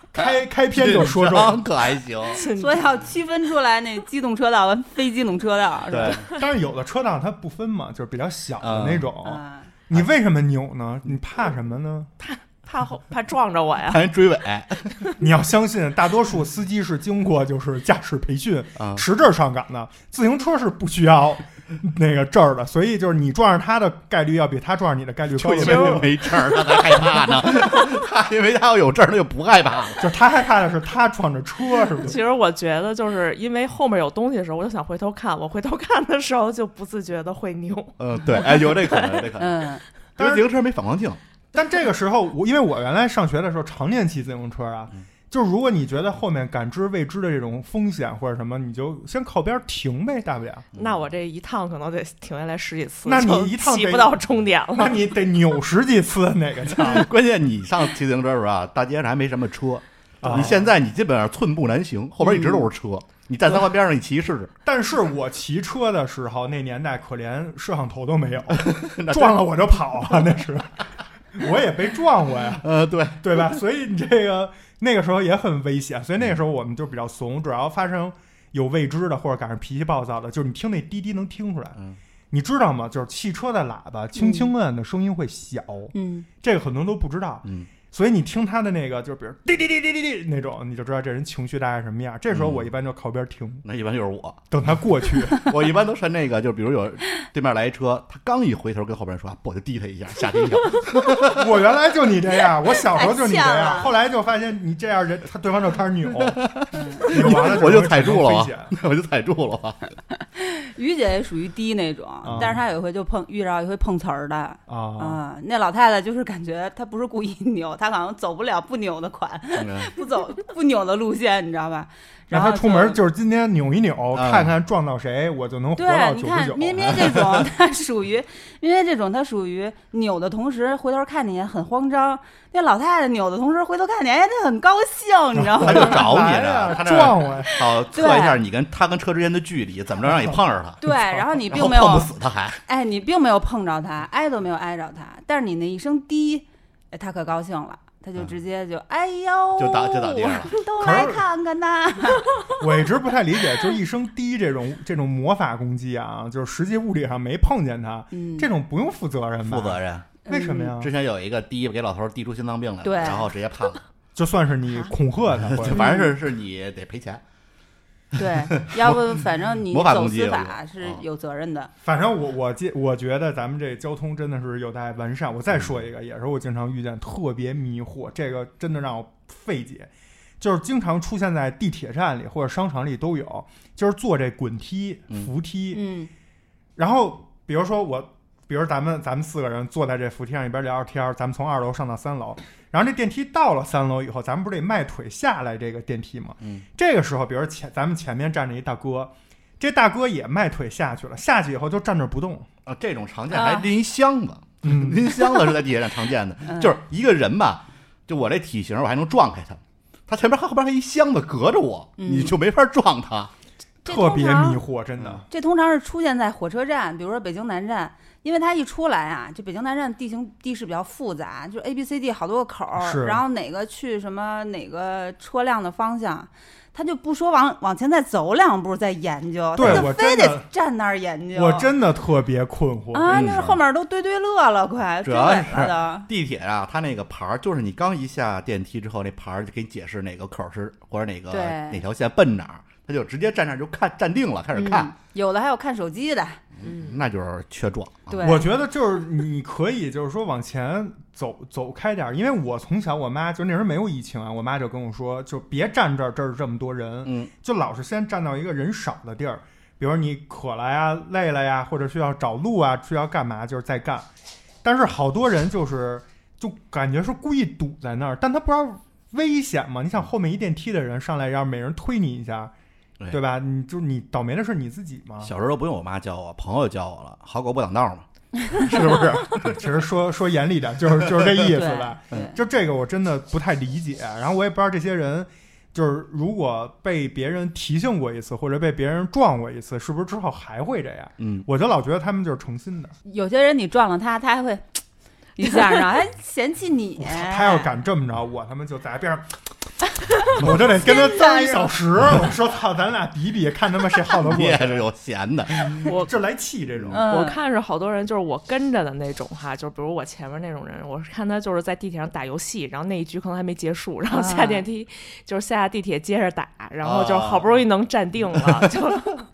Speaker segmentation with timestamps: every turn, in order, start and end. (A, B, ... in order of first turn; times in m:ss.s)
0:00.1-0:01.6 A
0:00.8-0:02.4 B
0:02.3-0:02.9 C
0:02.4-0:06.2 D
0:05.9-0:06.3 B
0:06.2-0:12.1 A
0:08.6-0:09.0 B
0:09.2-0:09.7 D
0:12.2-0:14.1 C
0:13.9-0:15.0 B
0:15.2-0:26.2 A
0:18.8-0:19.0 B
0:25.4-0:30.1 B
0:25.6-0:26.0 C
0:30.0-0:32.2 A
0:32.0-0:39.3 C
0:38.0-0:39.6 B
0:39.4-0:39.8 D
0:40.2-0:41.2 B
0:40.2-0:40.5 A
0:41.5-0:50.7 A
0:50.8-0:51.0 B
0:50.8-0:55.0 C
0:53.0-0:54.2 A
0:54.7-0:57.1 A
0:56.8-1:04.5 B
1:00.2-1:00.7 A
1:02.2-1:02.7 D
1:04.6-1:21.8 A
1:08.5-1:10.2 B
1:12.6-1:13.2 B
1:22.3-1:33.6 A
1:24.2-1:24.5 D
1:25.9-1:26.3 D
1:27.4-1:27.7 B
1:32.3-1:32.7 B
1:33.6-1:34.4 B
1:34.5-1:35.7 A
1:35.3-1:41.5 B
1:41.2-1:46.5 A
1:42.9-1:43.9 D
1:46.2-1:49.8 B
1:46.7-1:47.1 D
1:47.0-1:48.7 A
1:50.4-2:03.0 D
1:52.2-1:52.6 A
1:52.3-1:52.5 B
1:54.7-1:55.2 A
1:59.6-1:59.9 B
2:02.3-2:07.2 A
2:04.1-2:04.5 B
2:05.8-2:16.1 D
2:15.4-2:17.6 A
2:15.6-2:20.8 B
2:17.5-2:18.4 D
2:20.0-2:21.2 A
2:20.8-2:22.1 D
2:21.5-2:22.6 B
2:22.6-2:32.3 D
2:29.6-2:30.6 B
2:30.8-2:31.2 A
2:32.6-2:40.9 A
2:38.1-2:38.5 D
2:39.4-2:40.2 B
2:40.3-2:40.7 D
2:40.8-2:43.8 B
2:42.8-2:43.3 D
2:44.2-2:46.0 A
2:45.4-2:47.2 B
2:45.7-2:46.1 D
2:48.2-2:51.7 D
2:48.2-2:49.0 B
2:49.6-2:51.0 B
2:51.8-3:05.8 A
3:05.7-3:06.1 D
3:06.8-3:22.5 A
3:22.7-3:33.3 B
3:23.3-3:23.7 D
3:24.6-3:25.6 A
3:26.4-3:26.8 D
3:32.0-3:32.4 D
3:33.8-3:34.6 D
3:33.9-3:35.3 A
3:35.3-3:51.7 D
3:42.8-3:43.2 A
3:49.6-3:50.5 A
3:49.6-3:49.9 B
3:51.3-3:53.4 A
3:52.9-3:56.1 D
3:53.1-3:53.6 B
3:55.0-4:04.9 B
4:01.3-4:01.8 D
4:04.5-4:06.4 D
4:06.6-4:08.1 B
4:06.6-4:07.0 C
4:08.1-4:08.5 D
4:08.2-4:24.1 A
4:17.0-4:17.3 B
4:24.6-4:32.5 A
4:33.1-4:35.4 A
4:35.2-4:39.7 B
4:38.9-4:53.0 A
4:41.5-4:42.4 D
4:51.2-4:51.5 B
4:53.1-4:54.8 D
4:55.4-4:57.7 D
4:57.0-4:59.3 A
5:00.3-5:04.8 A
5:00.8-5:01.7 D
5:04.2-5:06.0 B
5:05.8-5:07.0 A
5:05.8-5:06.1 C
5:06.9-5:07.4 D
5:07.1-5:19.2 C
5:14.1-5:14.6 D
5:16.8-5:17.6 B
5:18.4-5:18.9 B